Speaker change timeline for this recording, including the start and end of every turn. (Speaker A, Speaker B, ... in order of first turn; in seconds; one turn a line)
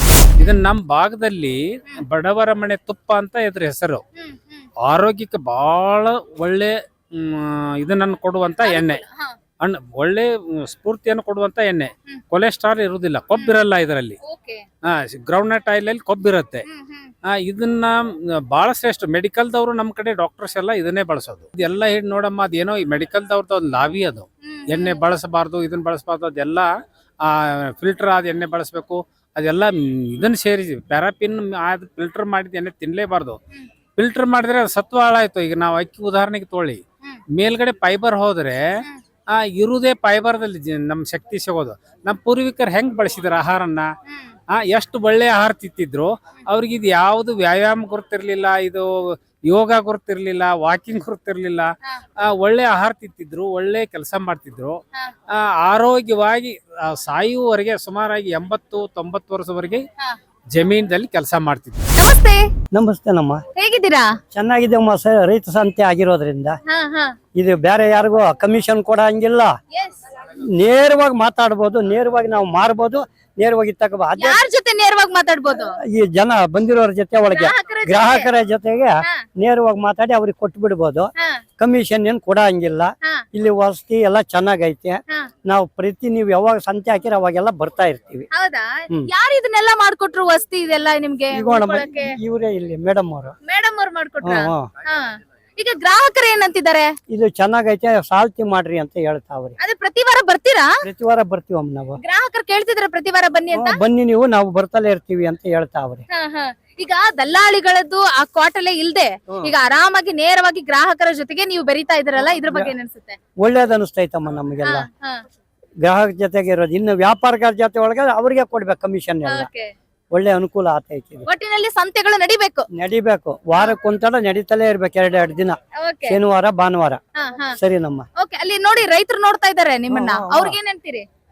Speaker A: 0.3-0.7
Speaker B: 0.4-4.0
Speaker A: 4.2-4.6
Speaker B: 4.9-9.0
Speaker A: 8.6-9.3
Speaker B: 9.6-14.2
Speaker A: 13.3-13.6
Speaker A: 14.2-14.6
Speaker B: 14.9-16.6
Speaker A: 16.6-17.1
Speaker B: 17.3-26.7
Speaker A: 24.4-25.0
Speaker B: 27.2-33.4
Speaker B: 34.0-36.8
Speaker B: 37.4-38.6
Speaker B: 39.4-43.9
Speaker B: 44.6-51.7
Speaker B: 52.2-54.8
Speaker B: 55.4-59.8
Speaker B: 60.5-61.9
Speaker A: 62.0-62.5
Speaker C: 62.7-63.4
Speaker A: 63.5-64.2
Speaker C: 64.3-66.6
Speaker A: 66.7-67.1
Speaker C: 67.3-69.6
Speaker A: 69.7-70.0
Speaker C: 70.6-74.4
Speaker A: 74.2-75.7
Speaker C: 75.9-88.3
Speaker A: 77.3-78.3
Speaker A: 88.3-92.1
Speaker C: 91.3-93.3
Speaker A: 93.4-96.9
Speaker C: 94.2-94.7
Speaker C: 97.1-99.6
Speaker A: 99.6-100.7
Speaker C: 100.8-102.0
Speaker A: 102.0-103.8
Speaker C: 103.5-106.0
Speaker A: 106.1-113.2
Speaker C: 112.5-112.7
Speaker C: 113.4-114.9
Speaker A: 114.6-115.2
Speaker C: 115.8-119.5
Speaker A: 119.2-119.7
Speaker C: 120.1-121.3
Speaker A: 121.3-122.6
Speaker C: 122.7-127.0
Speaker A: 125.8-126.2
Speaker A: 127.2-127.5
Speaker C: 127.5-128.0
Speaker A: 128.2-131.0
Speaker C: 129.9-130.6